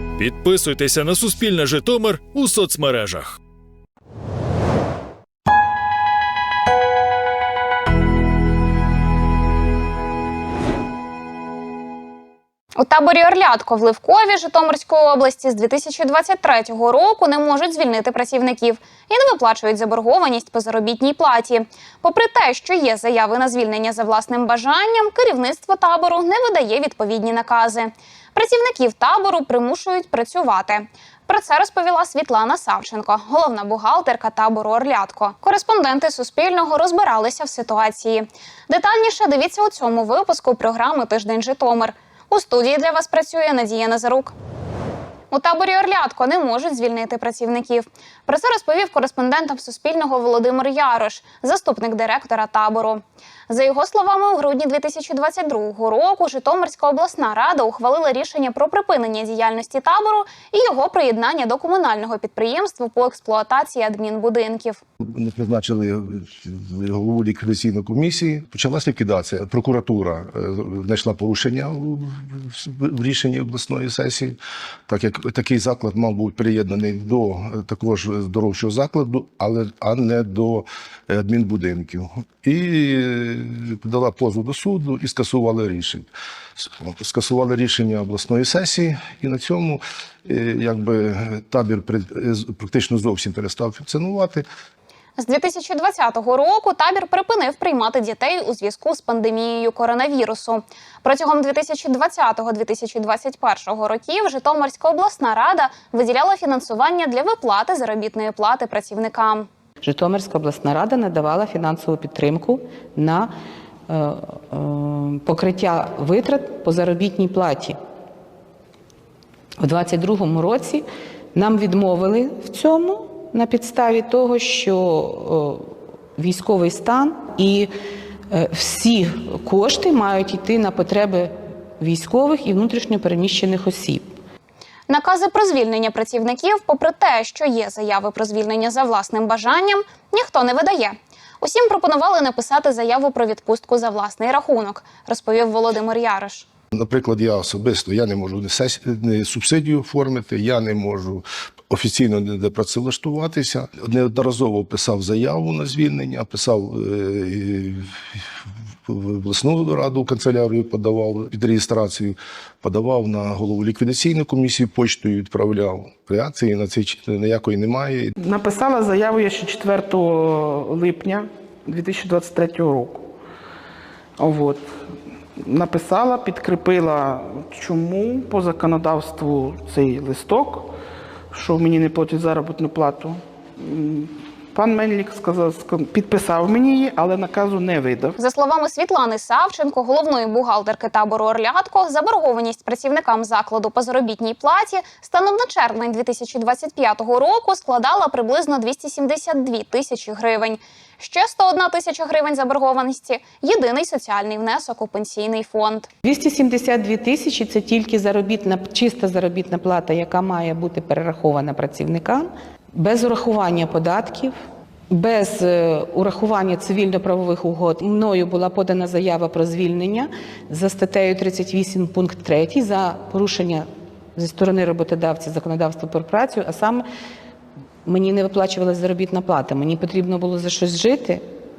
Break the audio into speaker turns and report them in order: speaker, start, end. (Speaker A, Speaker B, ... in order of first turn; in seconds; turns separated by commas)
Speaker A: 0.2-3.4, Speaker B: 12.8-44.3, Speaker B: 45.3-64.8, Speaker C: 65.1-74.4, Speaker C: 74.9-86.1, Speaker C: 86.6-94.5, Speaker B: 95.2-109.5, Speaker D: 109.8-113.3, Speaker D: 113.9-117.8, Speaker D: 119.6-120.8, Speaker D: 121.3-127.7, Speaker D: 128.3-134.0, Speaker B: 134.9-146.4, Speaker C: 146.8-157.9, Speaker C: 158.9-168.1, Speaker E: 168.2-173.0, Speaker E: 174.2-174.8, Speaker E: 175.4-180.7, Speaker E: 181.3-188.2, Speaker B: 188.2-205.9, Speaker D: 206.0-214.3, Speaker D: 214.9-226.8, Speaker D: 227.8-231.2